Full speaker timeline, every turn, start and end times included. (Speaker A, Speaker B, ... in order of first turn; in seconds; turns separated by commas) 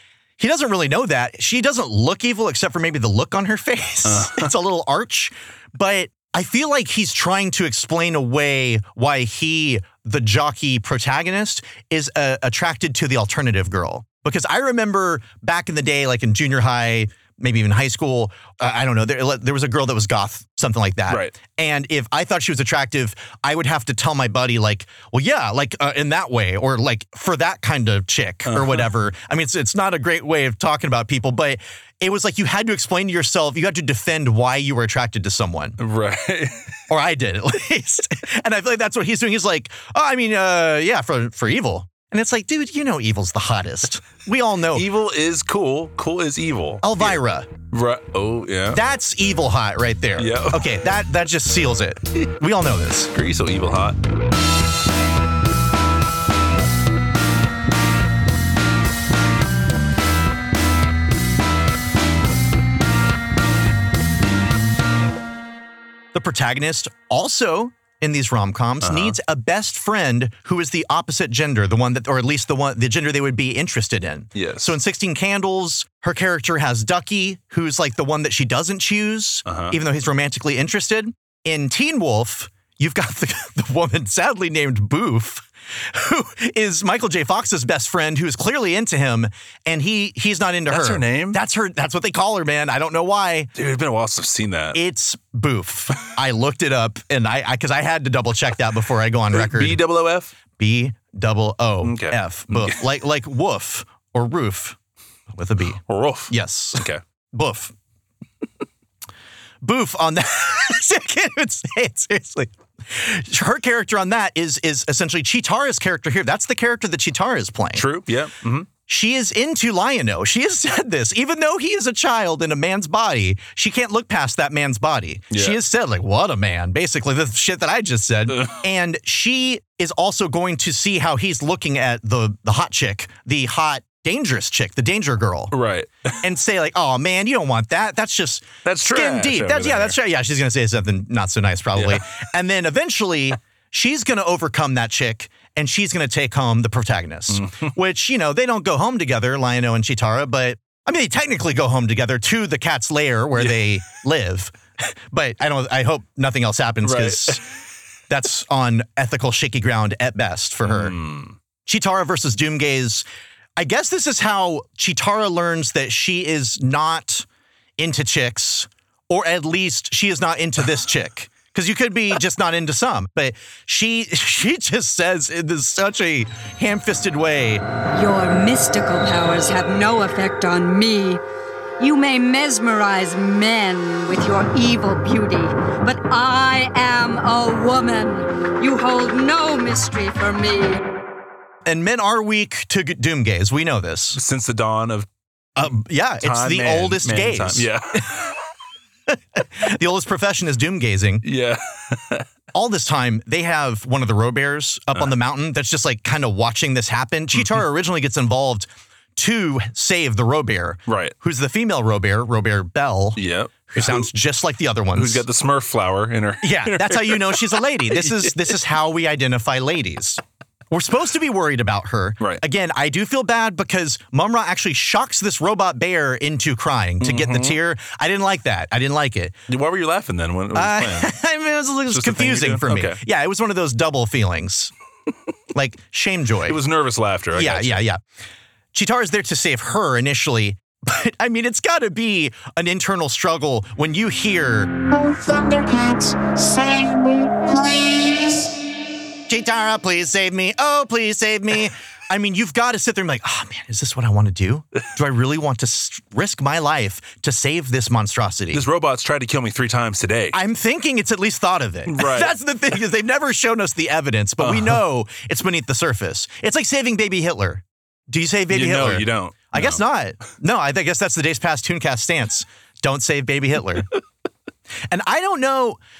Speaker A: 0.4-35.8, Speaker B: 4.0-4.5, Speaker B: 28.5-28.9, Speaker B: 35.8-36.6, Speaker A: 36.9-44.9, Speaker B: 44.7-47.2, Speaker A: 46.8-47.5, Speaker B: 47.7-48.8, Speaker A: 48.7-53.1, Speaker B: 50.2-50.7, Speaker B: 53.1-54.0, Speaker A: 66.1-93.5, Speaker B: 68.8-69.1, Speaker B: 74.3-74.8, Speaker B: 79.5-79.8, Speaker B: 90.7-91.4, Speaker B: 93.5-94.8, Speaker A: 94.7-99.8, Speaker B: 99.3-100.3, Speaker A: 100.6-104.8, Speaker B: 101.8-102.8, Speaker A: 105.3-107.7, Speaker B: 105.9-107.0, Speaker A: 109.6-117.8, Speaker B: 117.7-118.7, Speaker A: 118.9-135.5, Speaker B: 125.3-125.6, Speaker B: 128.3-128.6, Speaker B: 135.5-136.2, Speaker A: 136.2-157.4, Speaker B: 138.6-139.9, Speaker B: 141.8-142.0, Speaker B: 147.3-147.7, Speaker B: 153.4-153.7, Speaker B: 156.8-157.4, Speaker A: 158.1-160.9, Speaker B: 160.7-161.3, Speaker A: 161.6-163.1, Speaker A: 163.6-167.2, Speaker A: 167.8-177.6, Speaker C: 177.9-181.2, Speaker C: 181.8-190.8, Speaker A: 191.7-194.2, Speaker B: 194.1-195.1, Speaker A: 195.6-197.7, Speaker B: 196.2-198.4, Speaker A: 199.3-201.2, Speaker B: 201.2-202.2, Speaker A: 202.5-213.2, Speaker B: 210.9-211.1, Speaker B: 213.2-214.1, Speaker A: 213.7-215.2, Speaker B: 214.9-218.6, Speaker A: 216.4-220.2, Speaker A: 220.7-229.3, Speaker B: 227.0-227.6, Speaker B: 229.5-231.1, Speaker A: 230.5-234.7, Speaker B: 231.9-233.0, Speaker A: 235.5-236.6, Speaker B: 236.5-237.8, Speaker A: 237.3-238.0, Speaker A: 238.7-244.7, Speaker D: 245.1-248.4, Speaker A: 249.3-258.6, Speaker B: 258.5-260.4, Speaker A: 260.3-273.9, Speaker B: 261.9-262.3, Speaker B: 264.4-264.8, Speaker B: 268.5-269.8, Speaker A: 274.9-275.8